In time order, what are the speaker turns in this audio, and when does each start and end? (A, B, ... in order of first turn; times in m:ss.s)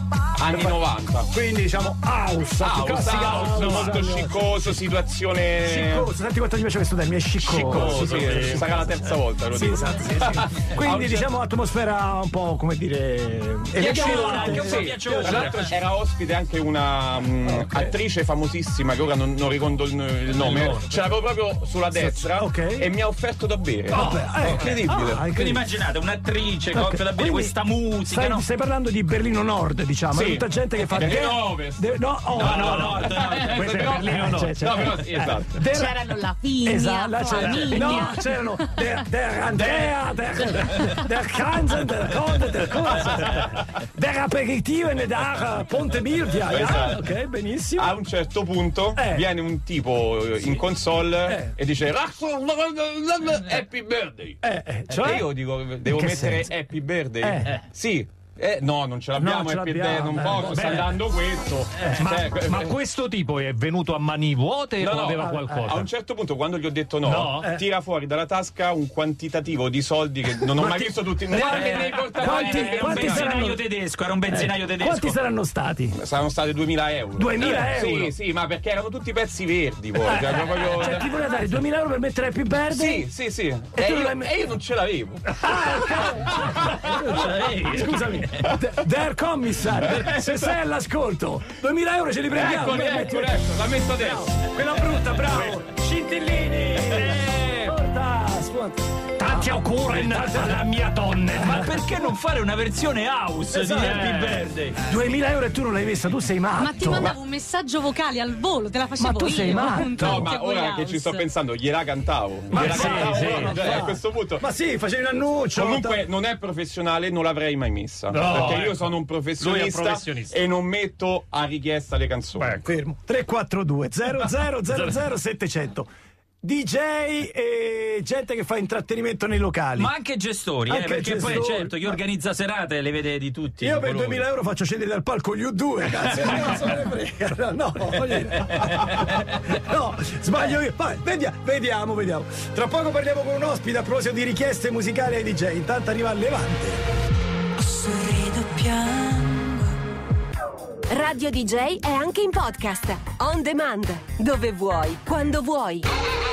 0:00.4-0:01.3 A
0:01.3-0:04.6 B
0:02.6-0:06.1 A
0:03.4-0:03.9 C
0:05.6-0:08.9 B
0:07.5-0:11.3 A
0:07.6-0:08.8 C
0:09.5-0:15.5 B
0:13.8-0:15.7 D
0:13.9-0:14.5 C
0:14.7-0:25.3 A
0:17.5-0:17.9 B
0:20.4-0:20.9 C
0:21.9-0:22.9 B
0:23.9-0:24.2 C
0:23.9-0:25.6 B
0:25.3-0:28.4 D
0:26.7-0:36.1 B
0:30.1-0:35.6 A
0:32.3-0:33.9 D
0:33.6-0:34.6 C
0:35.7-0:38.4 E
0:36.6-0:47.9 B
0:37.3-0:38.0 C
0:39.5-0:39.9 C
0:46.5-0:47.0 A
0:47.8-0:54.4 A
0:49.0-0:49.2 B
0:54.4-0:55.3 B
0:54.9-1:02.7 A
0:55.8-0:56.5 B
0:57.2-0:57.6 B
0:59.2-1:00.9 B
1:02.0-1:05.9 C
1:04.8-1:13.4 A
1:05.2-1:05.5 B
1:07.0-1:07.5 C
1:07.4-1:07.6 B
1:10.6-1:13.6 B
1:11.5-1:15.2 D
1:14.3-1:16.0 B
1:16.0-1:21.1 A
1:17.2-1:18.1 B
1:20.0-1:23.0 B
1:22.7-1:25.2 A
1:23.7-1:24.3 B
1:25.4-1:42.1 B
1:27.2-1:28.3 D
1:30.0-1:30.3 A
1:32.3-1:34.3 A
1:37.1-1:37.4 C
1:39.2-1:40.9 C
1:41.4-1:44.8 D
1:43.5-1:47.2 B
1:43.8-1:44.4 C
1:46.6-1:51.2 E
1:49.0-1:50.3 B
1:49.1-1:50.3 C
1:50.0-1:54.4 A
1:52.5-1:56.0 B
1:52.5-1:53.8 C
1:55.6-2:02.6 A
1:58.1-2:00.4 C
2:02.6-2:05.9 B
2:06.4-2:09.9 B
2:09.8-2:14.2 D
2:10.7-2:12.0 B
2:13.6-2:26.8 B
2:16.2-2:16.5 D
2:27.6-2:29.6 F
2:30.9-2:35.9 G